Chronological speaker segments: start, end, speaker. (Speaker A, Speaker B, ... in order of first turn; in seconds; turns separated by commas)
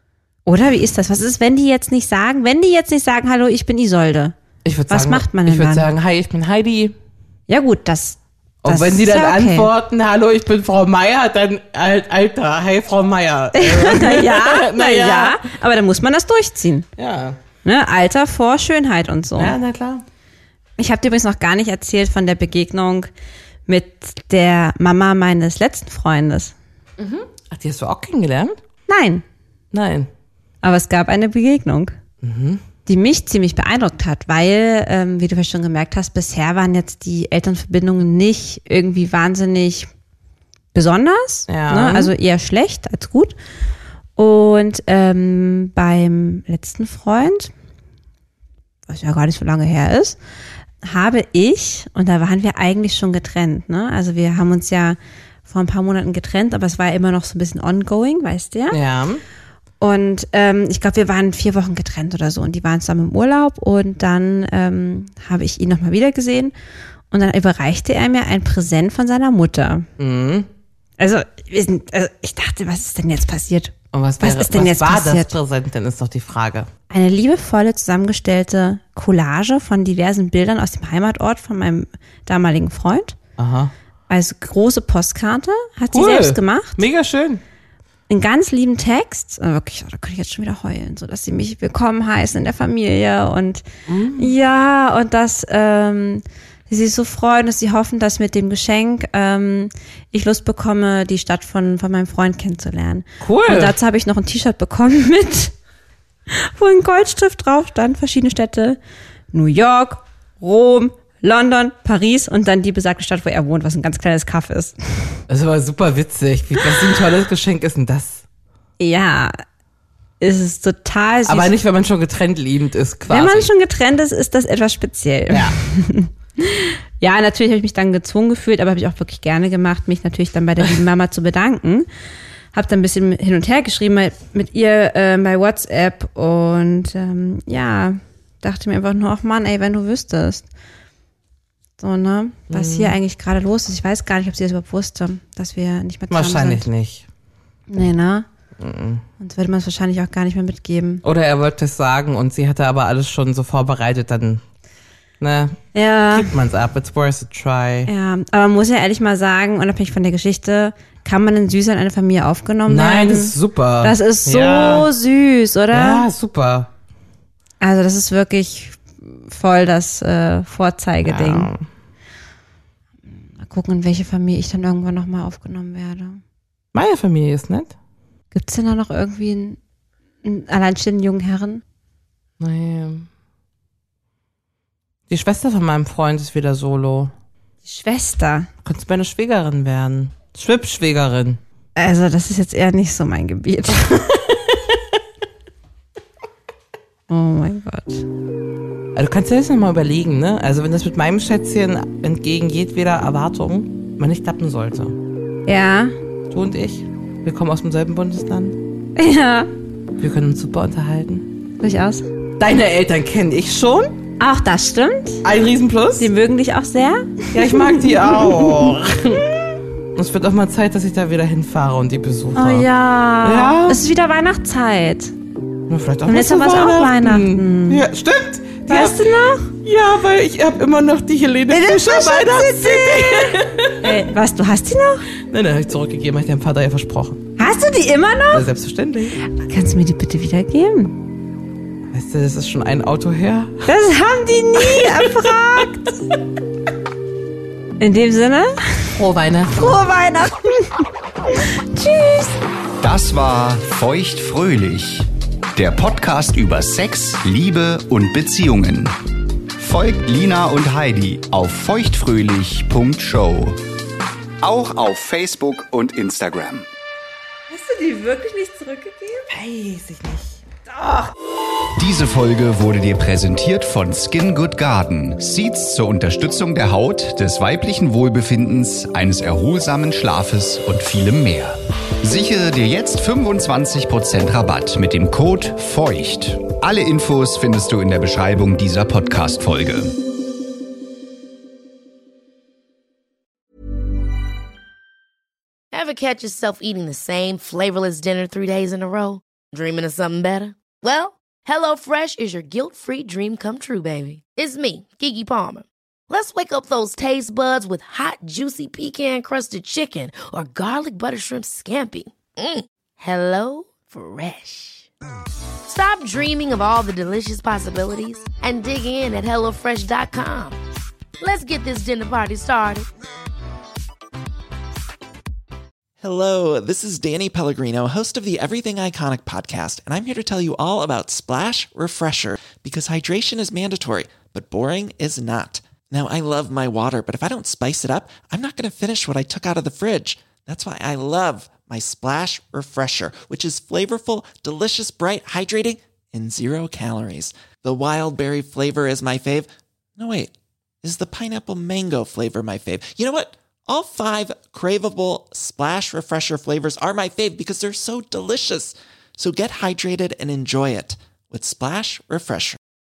Speaker A: 0.5-4.3, Speaker B: 4.7-7.0, Speaker A: 4.9-5.9, Speaker A: 7.5-9.7, Speaker B: 8.6-15.4, Speaker A: 13.5-16.9, Speaker B: 17.0-17.4, Speaker A: 17.6-19.6, Speaker B: 19.4-20.1, Speaker A: 20.8-23.1, Speaker A: 23.7-26.5, Speaker B: 27.0-28.6, Speaker A: 28.9-29.2, Speaker B: 29.7-30.1, Speaker A: 30.6-31.9, Speaker B: 32.2-32.6, Speaker A: 32.9-39.9, Speaker A: 40.7-43.4, Speaker B: 41.5-42.1, Speaker A: 44.2-47.5, Speaker A: 48.9-50.2, Speaker A: 50.8-58.8, Speaker B: 58.7-59.2, Speaker A: 59.8-66.5, Speaker A: 67.1-69.9, Speaker B: 70.0-70.5, Speaker A: 71.0-75.3, Speaker B: 73.9-76.7, Speaker A: 76.9-83.2, Speaker B: 83.4-83.7, Speaker A: 84.1-86.8, Speaker B: 85.9-87.4, Speaker A: 88.1-93.6, Speaker B: 93.9-94.3, Speaker A: 94.2-105.5, Speaker B: 103.2-103.8, Speaker A: 106.3-108.8, Speaker A: 109.3-115.2, Speaker B: 115.3-118.2, Speaker A: 118.8-119.3, Speaker A: 120.2-121.5, Speaker B: 121.3-123.5, Speaker A: 123.1-131.9, Speaker B: 125.3-125.6, Speaker A: 132.5-140.5, Speaker A: 141.8-146.7, Speaker B: 142.5-143.0, Speaker B: 146.1-147.1, Speaker A: 147.7-148.3, Speaker B: 148.6-149.0, Speaker A: 149.2-151.0, Speaker B: 151.0-154.4, Speaker B: 155.2-155.6, Speaker A: 155.7-156.3, Speaker B: 156.1-157.9, Speaker A: 157.9-166.1, Speaker B: 162.7-164.9, Speaker B: 165.7-166.7, Speaker A: 167.6-171.5, Speaker B: 171.0-171.7, Speaker A: 173.4-176.2, Speaker B: 176.7-177.8, Speaker A: 178.3-179.6, Speaker A: 180.2-181.6, Speaker B: 182.4-183.1, Speaker B: 185.1-187.1, Speaker A: 187.7-188.5, Speaker B: 188.6-191.4, Speaker A: 191.8-194.2, Speaker A: 197.1-198.1, Speaker B: 198.9-205.0, Speaker A: 205.5-206.0, Speaker B: 206.3-208.6, Speaker A: 209.0-209.5, Speaker B: 210.0-211.3, Speaker A: 211.6-212.1, Speaker B: 212.4-214.0, Speaker A: 214.2-215.2, Speaker B: 215.2-216.1, Speaker A: 216.0-218.7, Speaker B: 217.3-219.3, Speaker B: 219.9-222.7, Speaker A: 222.3-225.1, Speaker B: 223.2-223.8, Speaker B: 225.7-229.0, Speaker A: 226.1-227.8, Speaker A: 228.7-229.5, Speaker B: 229.6-234.0, Speaker A: 231.5-235.1, Speaker B: 235.2-237.2, Speaker A: 237.4-238.5, Speaker B: 238.3-239.2, Speaker A: 239.2-241.0, Speaker B: 241.9-243.7, Speaker A: 243.7-245.9, Speaker B: 244.6-245.1, Speaker A: 247.8-248.9, Speaker B: 248.9-249.8, Speaker A: 249.6-252.4, Speaker C: 252.8-258.9, Speaker C: 259.6-263.6, Speaker C: 264.4-266.7, Speaker A: 267.5-269.3, Speaker B: 269.3-270.4, Speaker A: 270.7-271.1, Speaker C: 271.8-290.0, Speaker D: 295.7-314.9, Speaker D: 315.7-320.6, Speaker D: 321.2-322.9, Speaker E: 326.0-350.3, Speaker E: 350.8-362.6